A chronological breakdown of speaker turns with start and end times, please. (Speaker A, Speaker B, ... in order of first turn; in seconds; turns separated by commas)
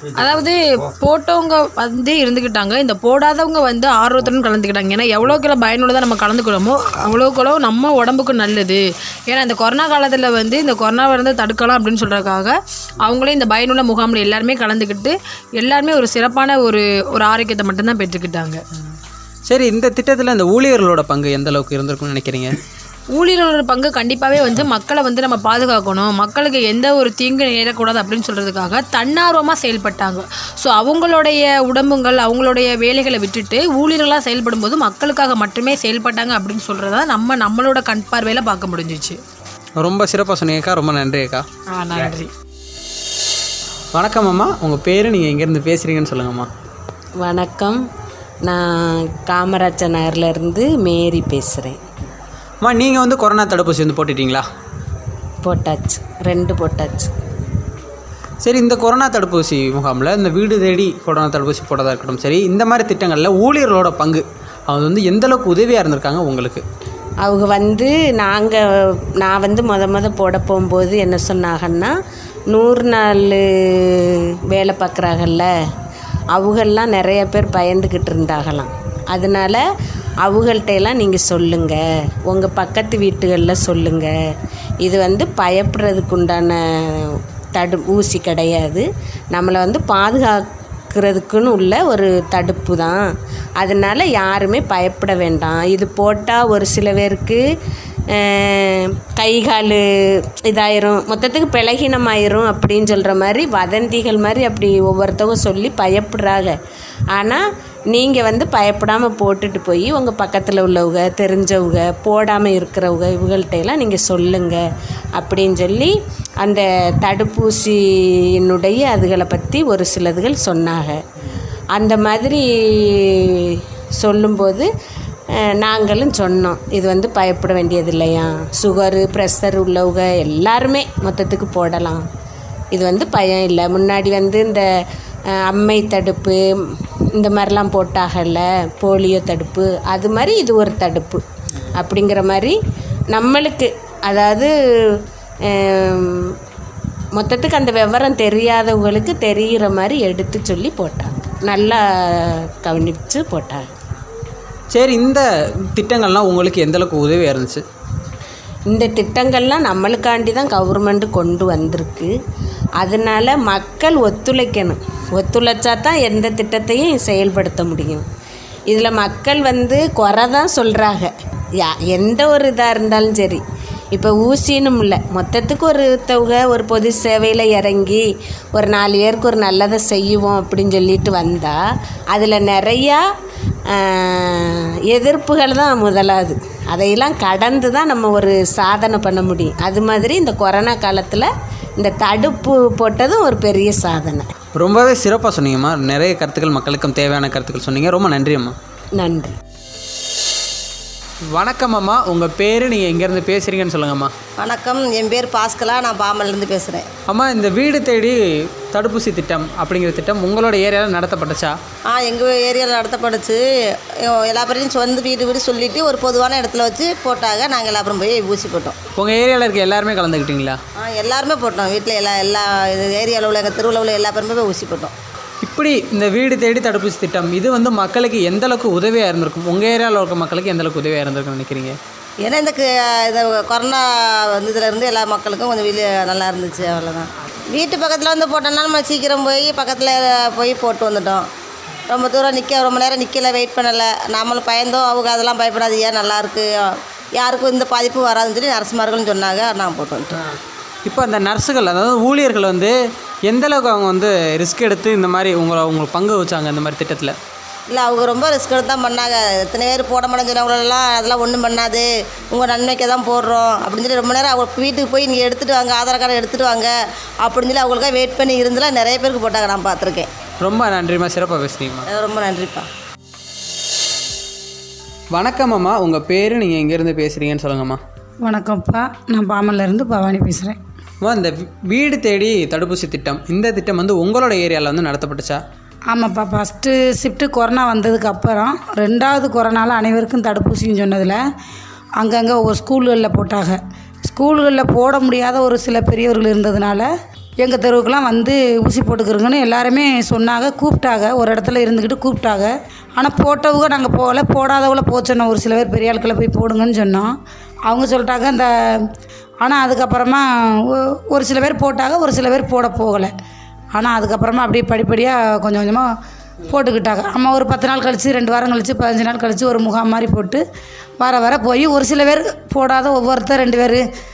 Speaker A: 0.1-18.6, Speaker B: 19.5-22.6, Speaker A: 23.1-39.2, Speaker B: 39.8-41.4, Speaker A: 41.7-42.3, Speaker B: 43.9-46.5, Speaker C: 47.2-47.8, Speaker C: 48.4-51.8, Speaker B: 52.6-54.4, Speaker C: 55.4-57.1, Speaker B: 58.4-66.6, Speaker C: 67.2-68.6, Speaker C: 69.2-71.9, Speaker C: 72.5-75.5, Speaker C: 76.3-79.6, Speaker C: 80.2-81.8, Speaker C: 82.3-84.1, Speaker C: 84.8-86.6, Speaker C: 87.6-90.4, Speaker C: 90.9-93.0, Speaker C: 93.6-97.4, Speaker C: 98.1-99.8, Speaker C: 100.5-106.5, Speaker C: 107.1-107.4, Speaker C: 107.9-114.6, Speaker C: 115.2-115.9, Speaker C: 116.4-117.8, Speaker C: 118.4-121.0, Speaker C: 121.7-124.7, Speaker C: 125.6-132.1, Speaker C: 132.7-134.7, Speaker C: 135.5-136.4, Speaker C: 137.2-141.2, Speaker C: 141.8-142.6, Speaker C: 143.1-146.3, Speaker C: 147.2-153.7, Speaker B: 154.7-155.2, Speaker B: 155.7-157.6, Speaker C: 158.7-162.1, Speaker C: 162.8-168.1, Speaker C: 168.7-173.4, Speaker C: 173.9-181.6, Speaker C: 182.1-183.0, Speaker C: 183.7-194.3, Speaker B: 194.5-198.5, Speaker C: 199.0-199.3, Speaker B: 201.3-204.1, Speaker D: 204.4-206.8, Speaker B: 207.1-208.1, Speaker B: 208.7-211.5, Speaker D: 211.9-218.8, Speaker B: 219.0-220.6, Speaker D: 220.8-224.9, Speaker B: 225.4-231.7, Speaker D: 232.2-241.3, Speaker D: 241.9-250.2, Speaker B: 250.8-252.7, Speaker B: 253.3-257.1, Speaker D: 257.7-270.1, Speaker B: 270.4-271.9, Speaker D: 271.9-272.7, Speaker B: 275.1-277.8, Speaker E: 278.2-280.6, Speaker B: 281.0-285.4, Speaker E: 285.9-291.2, Speaker E: 292.0-296.9, Speaker E: 297.4-307.1, Speaker E: 307.7-308.9, Speaker E: 309.4-313.1, Speaker E: 313.7-315.9, Speaker E: 316.5-320.4, Speaker E: 321.0-323.8